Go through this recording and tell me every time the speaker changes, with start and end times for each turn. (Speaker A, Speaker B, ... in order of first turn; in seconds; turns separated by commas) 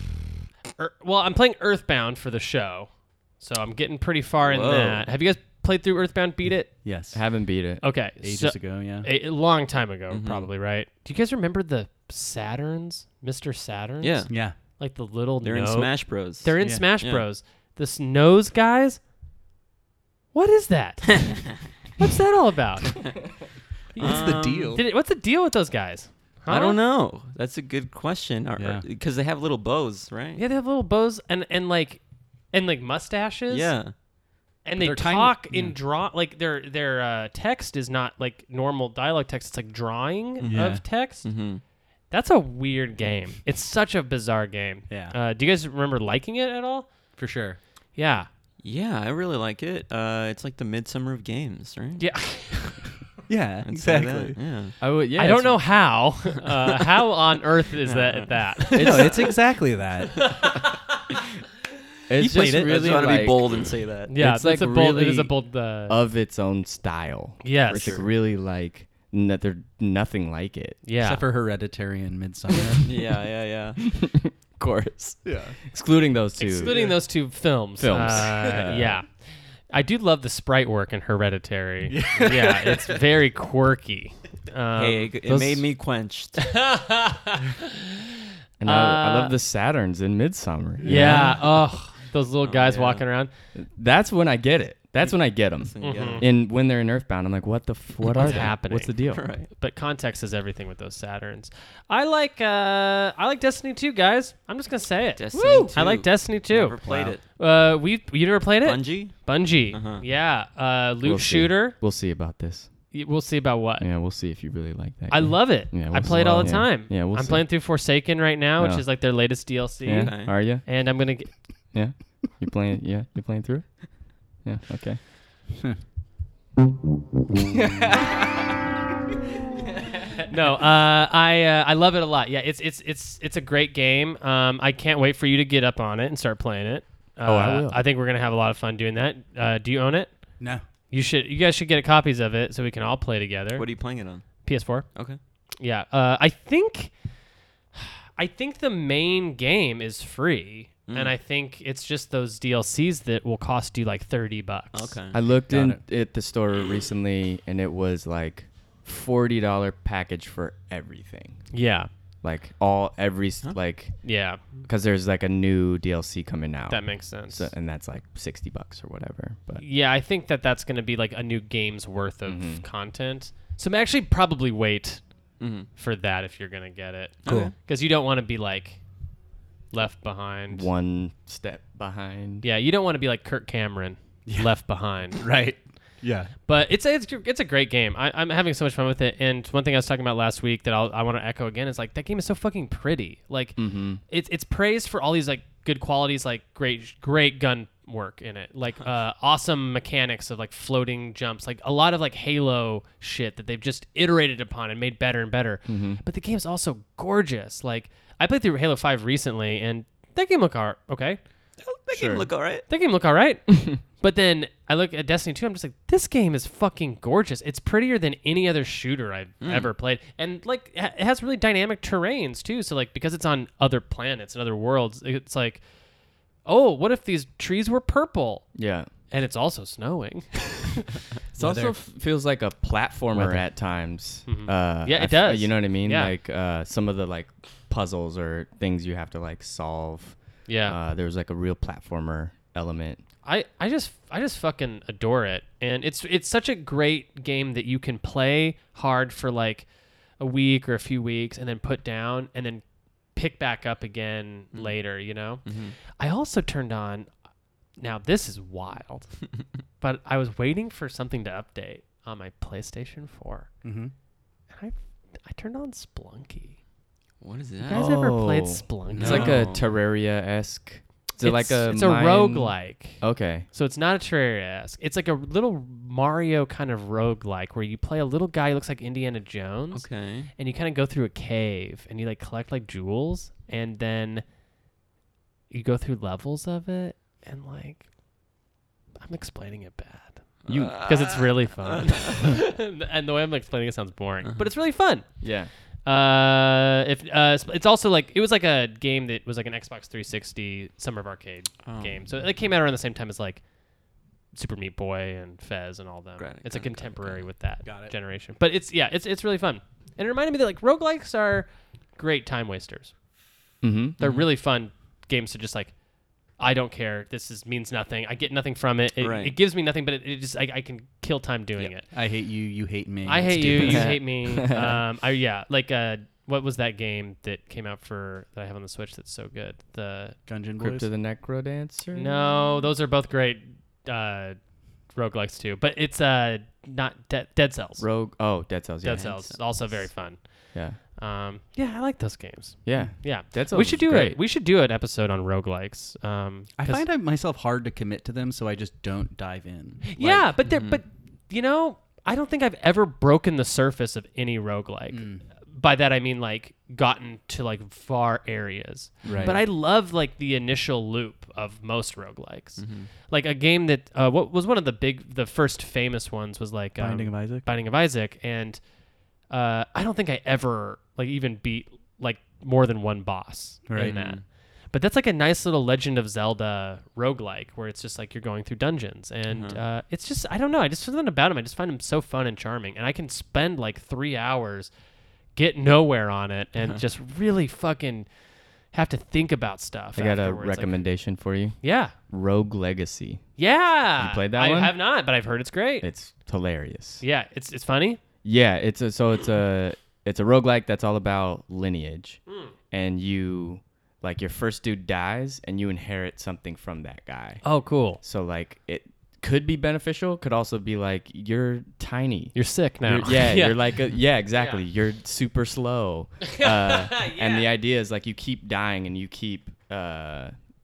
Speaker A: 0.8-6.8, Speaker B: 4.4-5.1, Speaker C: 6.8-7.2, Speaker D: 7.1-7.8, Speaker A: 7.8-19.0, Speaker C: 8.2-9.1, Speaker B: 10.1-10.5, Speaker B: 14.0-14.3, Speaker C: 14.3-14.6, Speaker B: 15.4-17.2, Speaker C: 16.6-16.9, Speaker A: 20.3-23.2, Speaker A: 23.9-26.8, Speaker C: 24.0-24.8, Speaker B: 24.0-24.8, Speaker B: 26.5-30.4, Speaker C: 28.6-28.8, Speaker A: 30.4-33.7, Speaker B: 33.5-33.9, Speaker A: 34.6-41.3, Speaker C: 34.8-35.8, Speaker C: 40.4-40.8, Speaker B: 41.2-41.6, Speaker A: 42.1-46.9, Speaker C: 44.9-45.2, Speaker C: 47.2-47.6, Speaker A: 48.0-48.3, Speaker B: 48.6-52.0, Speaker A: 52.0-52.8, Speaker C: 53.3-54.4, Speaker B: 53.6-54.8, Speaker D: 54.8-55.6, Speaker A: 55.2-59.3, Speaker B: 57.8-59.3, Speaker C: 58.8-60.4, Speaker A: 60.2-60.7, Speaker D: 62.1-70.8, Speaker B: 62.2-64.1, Speaker A: 64.1-66.0, Speaker A: 67.4-68.0, Speaker B: 67.7-68.1, Speaker A: 70.8-71.2, Speaker C: 71.0-72.9, Speaker B: 72.8-73.8, Speaker D: 73.8-77.0, Speaker C: 75.2-75.6, Speaker A: 76.4-79.1, Speaker C: 76.7-76.9, Speaker D: 77.8-79.0, Speaker A: 79.7-85.1, Speaker C: 81.9-83.0, Speaker B: 84.8-86.6, Speaker D: 85.3-85.7, Speaker A: 86.5-87.8, Speaker D: 88.6-91.4, Speaker A: 88.7-89.3, Speaker A: 90.8-93.3, Speaker C: 90.9-91.4, Speaker B: 92.4-93.0, Speaker D: 93.5-99.2, Speaker B: 95.4-96.3, Speaker A: 95.8-96.2, Speaker B: 98.0-99.5, Speaker A: 98.2-98.9, Speaker A: 99.5-111.8, Speaker B: 105.2-107.2, Speaker D: 105.4-105.6, Speaker C: 106.9-107.1, Speaker B: 108.6-109.2, Speaker B: 109.7-110.0, Speaker D: 111.0-112.7, Speaker A: 112.9-113.9, Speaker D: 113.8-117.5, Speaker A: 115.1-121.3, Speaker D: 118.6-118.9, Speaker D: 119.8-120.8, Speaker B: 120.0-120.3, Speaker D: 121.7-125.0, Speaker A: 130.2-140.2, Speaker D: 137.2-137.8, Speaker A: 140.9-143.7, Speaker B: 143.6-145.2, Speaker A: 144.4-144.9, Speaker A: 145.6-146.9, Speaker A: 147.8-155.0, Speaker B: 150.9-151.1, Speaker B: 154.7-155.2, Speaker D: 155.1-161.6, Speaker C: 155.5-155.8, Speaker A: 161.5-161.9, Speaker D: 162.2-169.6, Speaker A: 164.0-164.4, Speaker A: 166.7-167.5, Speaker A: 169.6-175.1, Speaker D: 172.3-172.7, Speaker B: 175.4-175.7, Speaker A: 175.8-178.8, Speaker B: 177.2-177.5, Speaker C: 177.3-177.5, Speaker A: 179.7-180.7, Speaker D: 180.5-182.5, Speaker A: 182.4-185.3, Speaker C: 184.3-184.6, Speaker C: 185.2-186.3, Speaker A: 186.5-211.2, Speaker D: 193.6-194.0, Speaker D: 205.7-206.0, Speaker B: 211.6-212.7, Speaker D: 211.9-212.3, Speaker A: 212.7-225.6, Speaker B: 219.4-219.7, Speaker A: 226.4-228.5, Speaker D: 228.6-228.9, Speaker A: 229.1-231.0, Speaker D: 231.3-243.0, Speaker C: 231.4-231.8, Speaker C: 233.1-233.4, Speaker A: 234.3-236.1, Speaker A: 240.5-240.8, Speaker A: 243.2-257.1, Speaker B: 255.4-255.8, Speaker A: 257.8-259.3, Speaker A: 259.8-263.5, Speaker C: 263.6-263.9, Speaker A: 264.5-266.6, Speaker B: 267.2-267.9, Speaker A: 267.6-269.4, Speaker D: 267.7-273.5, Speaker B: 268.9-269.6, Speaker C: 269.0-269.4, Speaker A: 271.2-284.2, Speaker B: 279.7-280.3, Speaker A: 285.5-287.9, Speaker A: 289.0-295.1, Speaker B: 290.4-292.2, Speaker D: 290.5-290.9, Speaker B: 294.2-294.5, Speaker D: 295.2-295.5, Speaker A: 295.9-303.4, Speaker B: 301.6-302.0, Speaker A: 304.3-312.9, Speaker B: 306.2-307.3, Speaker C: 307.6-307.9, Speaker D: 313.6-314.0, Speaker A: 314.0-315.8, Speaker B: 314.0-314.3, Speaker A: 316.4-321.9, Speaker B: 319.0-319.4, Speaker C: 321.9-324.0, Speaker A: 323.1-330.2, Speaker D: 323.5-324.8, Speaker C: 330.3-330.9, Speaker D: 330.6-332.5, Speaker A: 331.9-334.4, Speaker A: 334.9-337.9, Speaker D: 337.8-339.3, Speaker A: 338.8-346.9, Speaker D: 340.5-340.8, Speaker D: 342.6-344.2, Speaker C: 346.6-350.3, Speaker A: 349.9-368.6, Speaker B: 350.5-350.8, Speaker C: 354.9-355.2, Speaker C: 359.0-359.4, Speaker B: 362.6-362.9, Speaker C: 366.8-367.5, Speaker A: 369.3-384.7, Speaker C: 373.7-374.0, Speaker B: 373.8-374.2, Speaker B: 379.3-379.6, Speaker A: 385.4-388.1, Speaker B: 386.6-386.8, Speaker A: 388.7-390.9, Speaker D: 389.9-393.2, Speaker A: 391.6-391.9, Speaker A: 393.4-395.9, Speaker D: 394.0-394.8, Speaker D: 395.8-397.0, Speaker A: 397.0-398.0, Speaker D: 398.2-407.4, Speaker A: 402.3-402.5, Speaker A: 407.4-408.0, Speaker D: 408.0-420.3, Speaker A: 412.4-413.6, Speaker A: 414.3-414.6, Speaker A: 416.2-417.5